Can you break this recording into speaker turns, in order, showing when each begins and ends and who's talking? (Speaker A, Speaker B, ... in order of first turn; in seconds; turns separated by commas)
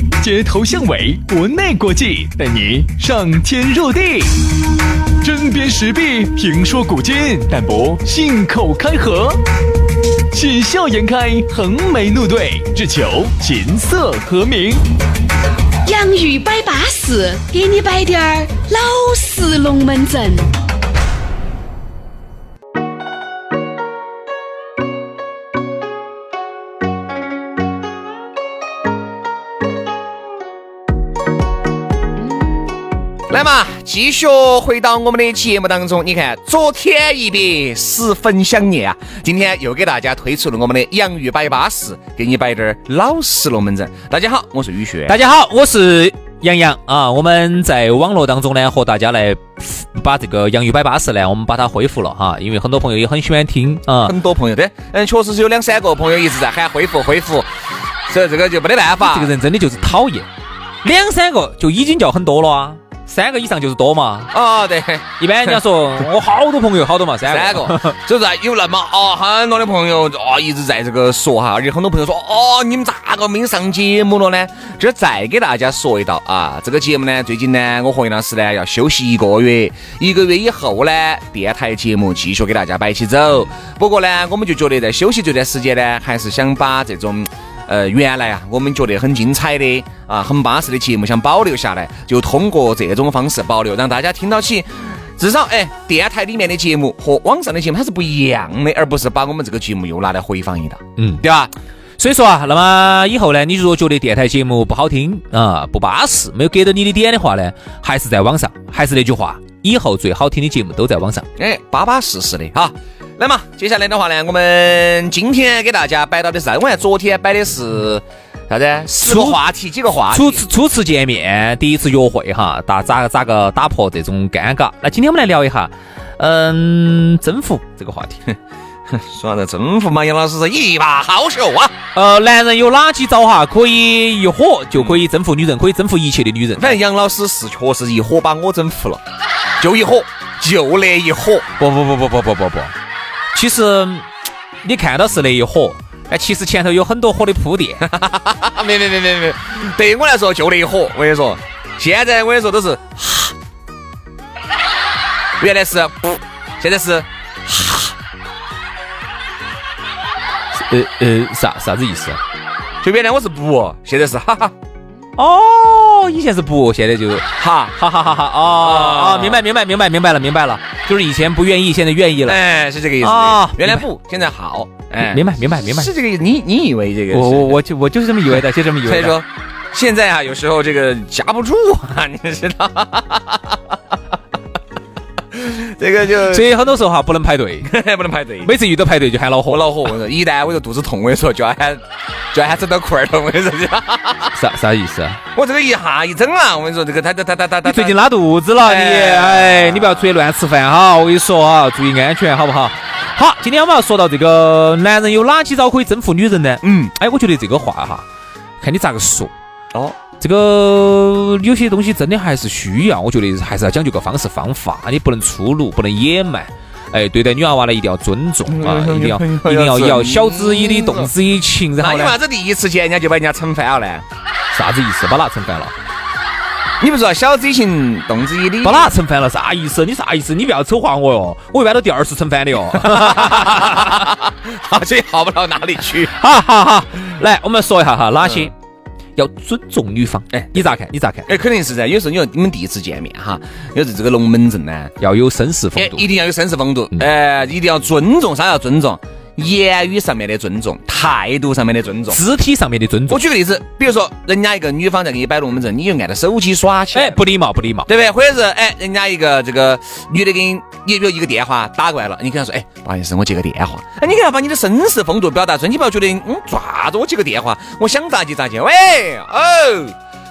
Speaker A: 0.2-4.3, Speaker A: 5.2-9.4, Speaker A: 10.3-14.8, Speaker B: 15.8-20.5, Speaker C: 33.3-45.1, Speaker D: 45.1-54.1, Speaker C: 54.0-57.5, Speaker C: 58.1-59.3, Speaker D: 59.0-60.3, Speaker D: 60.8-64.3, Speaker C: 64.3-65.6, Speaker D: 65.2-68.0, Speaker C: 67.2-101.5, Speaker D: 101.0-101.2, Speaker D: 102.0-111.3, Speaker C: 111.4-120.4, Speaker D: 119.0-119.4, Speaker D: 120.1-128.2, Speaker C: 128.9-131.7, Speaker D: 131.9-136.8, Speaker C: 134.7-135.0, Speaker C: 136.6-139.0, Speaker C: 139.6-141.5, Speaker D: 141.6-142.7, Speaker D: 143.3-144.1, Speaker D: 144.6-147.8, Speaker C: 147.8-153.3, Speaker C: 155.4-157.9, Speaker D: 160.5-162.2, Speaker C: 162.8-164.5, Speaker D: 165.2-172.4, Speaker C: 167.4-167.8, Speaker C: 168.6-169.4, Speaker C: 172.2-177.6, Speaker D: 173.0-173.8, Speaker D: 175.0-175.9, Speaker D: 177.1-179.2, Speaker C: 178.3-183.6, Speaker C: 185.3-186.5, Speaker D: 186.3-187.7, Speaker C: 187.7-188.5, Speaker D: 188.4-189.8, Speaker C: 189.5-191.8, Speaker C: 192.3-194.3, Speaker D: 194.3-195.2, Speaker C: 195.3-198.0, Speaker D: 197.6-208.0, Speaker C: 198.6-200.1, Speaker C: 206.6-206.9, Speaker D: 208.6-209.3, Speaker D: 210.2-222.2, Speaker C: 218.5-221.1, Speaker C: 221.8-224.0, Speaker D: 224.5-225.7, Speaker C: 226.8-228.9, Speaker D: 228.6-234.0, Speaker C: 232.8-236.1, Speaker D: 236.1-238.5, Speaker C: 238.2-238.5, Speaker D: 239.2-241.3, Speaker C: 240.3-240.6, Speaker C: 241.3-244.9, Speaker D: 245.0-246.1, Speaker C: 245.8-252.2, Speaker D: 252.1-253.2, Speaker C: 253.1-257.2, Speaker D: 256.9-257.9, Speaker C: 257.9-269.9